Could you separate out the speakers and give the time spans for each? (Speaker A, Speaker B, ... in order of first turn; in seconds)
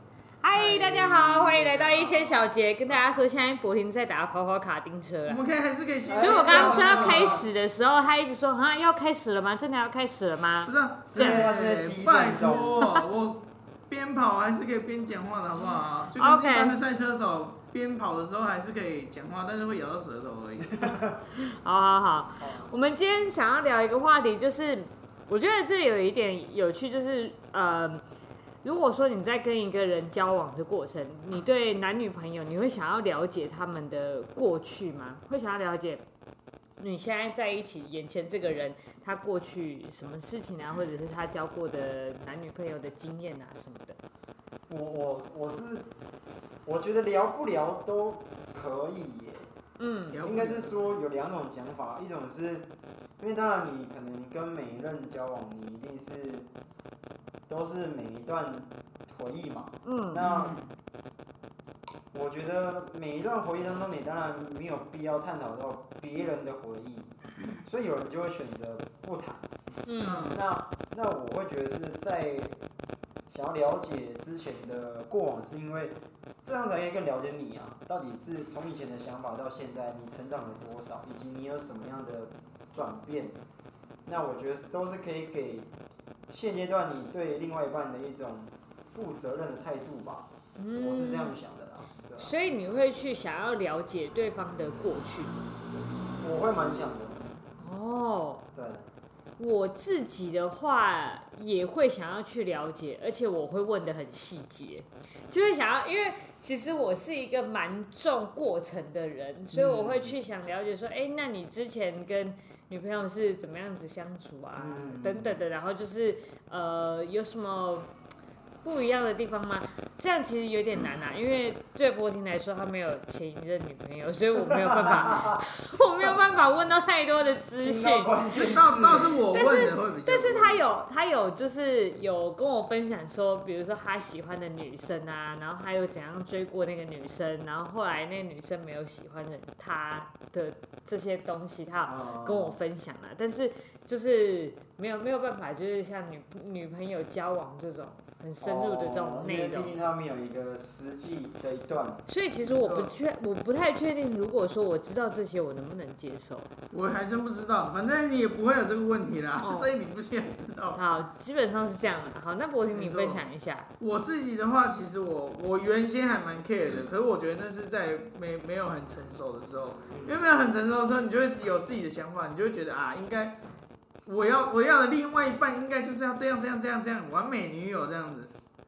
Speaker A: 0.4-5.5, 6.2-11.5, 16.2-16.8, 21.4-28.0, 28.6-36.0, 36.8-44.0, 49.8-50.2, 59.9-60.3, 69.9-70.4, 90.6-91.4, 92.2-95.4, 97.6-98.5, 99.4-117.9, 118.6-128.2, 129.3-149.8, 152.1-156.5, 159.4-159.7, 160.8-163.7
Speaker B: 0.5-2.4, 5.3-7.5, 10.7-20.9, 50.1-50.9, 60.2-60.7, 70.0-70.4, 128.3-130.6, 152.5-152.9, 156.7-160.8, 162.7-163.2, 163.8-173.4, 174.1-178.3
Speaker C: 6.1-7.5, 11.1-12.8, 20.7-21.1, 22.4-22.7, 44.7-45.9, 46.6-49.5, 50.2-52.7, 53.2-56.5, 57.5-60.6, 62.1-67.1, 67.6-69.5, 70.1-72.6, 73.3-83.4, 84.1-85.7, 86.3-92.3, 96.2-97.2, 98.5-98.8, 109.5-110.2, 114.6-115.4, 124.4-125.4, 127.6-129.2, 141.9-142.6, 148.4-152.1, 169.9-170.2